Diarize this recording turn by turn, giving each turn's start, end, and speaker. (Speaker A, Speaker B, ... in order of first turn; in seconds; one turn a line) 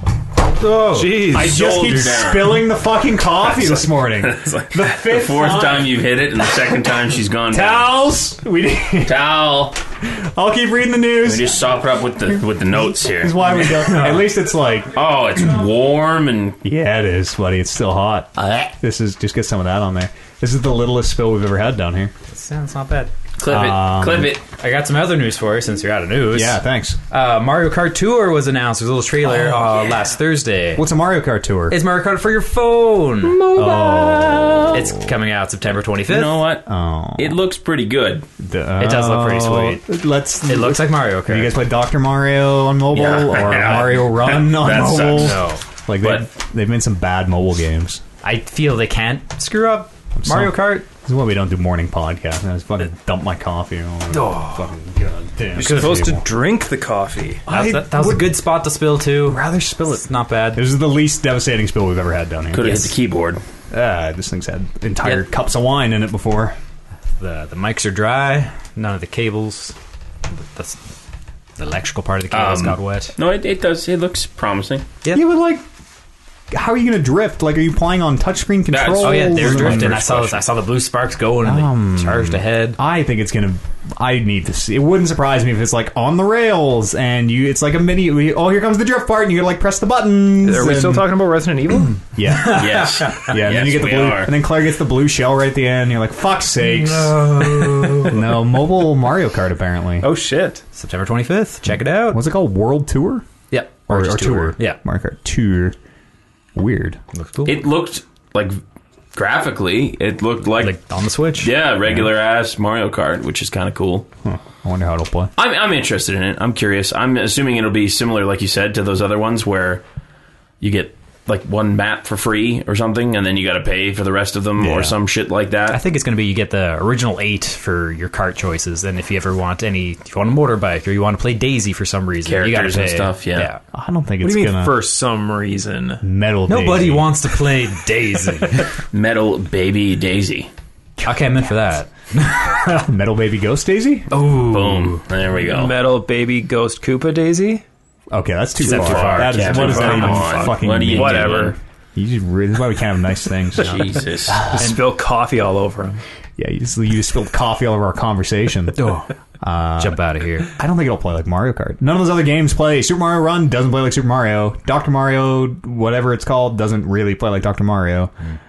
Speaker A: 0.5-1.3
Speaker B: 0.9-1.7
Speaker C: 1.2-2.7
Speaker D: 1.2-5.9
Speaker C: 3.5-7.9
Speaker D: 7.5-9.2
Speaker C: 9.0-9.8
Speaker D: 10.0-11.6
Speaker C: 11.2-14.0
Speaker D: 12.9-15.0
Speaker A: 13.7-14.3
Speaker C: 14.9-16.6
Speaker D: 16.6-22.1
Speaker C: 18.4-18.7
Speaker A: 22.3-23.1
Speaker C: 23.4-24.4
Speaker D: 23.4-24.4
Speaker A: 24.5-30.9
Speaker D: 26.3-27.0
Speaker D: 30.8-31.8
Speaker A: 31.7-36.5
Speaker C: 33.2-34.8
Speaker D: 33.5-35.1
Speaker C: 36.1-38.3
Speaker D: 36.7-37.4
Speaker D: 38.4-48.0
Speaker A: 38.8-39.8
Speaker A: 40.5-41.6
Speaker C: 42.9-45.4
Speaker A: 45.1-45.6
Speaker C: 46.0-46.3
Speaker A: 48.2-50.9
Speaker D: 50.2-56.2
Speaker A: 54.1-54.7
Speaker B: 55.5-57.5
Speaker A: 55.6-55.9
Speaker D: 57.5-58.4
Speaker A: 57.5-60.7
Speaker D: 59.2-62.9
Speaker C: 62.5-63.4
Speaker D: 63.7-66.6
Speaker A: 67.2-69.8
Speaker A: 70.4-70.8
Speaker A: 71.6-73.2
Speaker C: 72.3-74.9
Speaker D: 75.1-75.6
Speaker D: 76.5-80.4
Speaker C: 78.7-80.0
Speaker A: 79.0-82.8
Speaker D: 81.4-91.1
Speaker B: 90.4-92.0
Speaker D: 92.1-100.1
Speaker A: 92.3-93.3
Speaker C: 92.4-94.3
Speaker A: 96.6-98.3
Speaker B: 100.0-100.6
Speaker A: 100.8-102.2
Speaker D: 102.1-103.3
Speaker A: 103.5-104.8
Speaker D: 103.9-105.8
Speaker D: 106.5-107.0
Speaker A: 107.1-107.6
Speaker C: 107.5-108.6
Speaker C: 109.1-110.8
Speaker A: 110.6-111.5
Speaker C: 111.4-114.1
Speaker D: 114.2-115.3
Speaker C: 115.4-119.8
Speaker C: 120.6-125.8
Speaker D: 124.6-125.0
Speaker A: 125.7-133.6
Speaker C: 132.2-133.5
Speaker D: 133.7-134.8
Speaker B: 134.2-136.0
Speaker D: 136.0-137.1
Speaker A: 136.5-138.8
Speaker C: 138.9-140.5
Speaker D: 141.0-141.2
Speaker A: 141.1-142.8
Speaker D: 142.7-144.1
Speaker A: 144.1-145.0
Speaker C: 144.3-145.8
Speaker B: 145.5-147.6
Speaker D: 148.1-154.8
Speaker A: 148.6-150.1
Speaker C: 148.6-151.6
Speaker B: 149.4-151.6
Speaker C: 153.6-154.5
Speaker B: 154.5-156.0
Speaker D: 156.4-168.1
Speaker A: 158.8-159.1
Speaker A: 159.8-160.5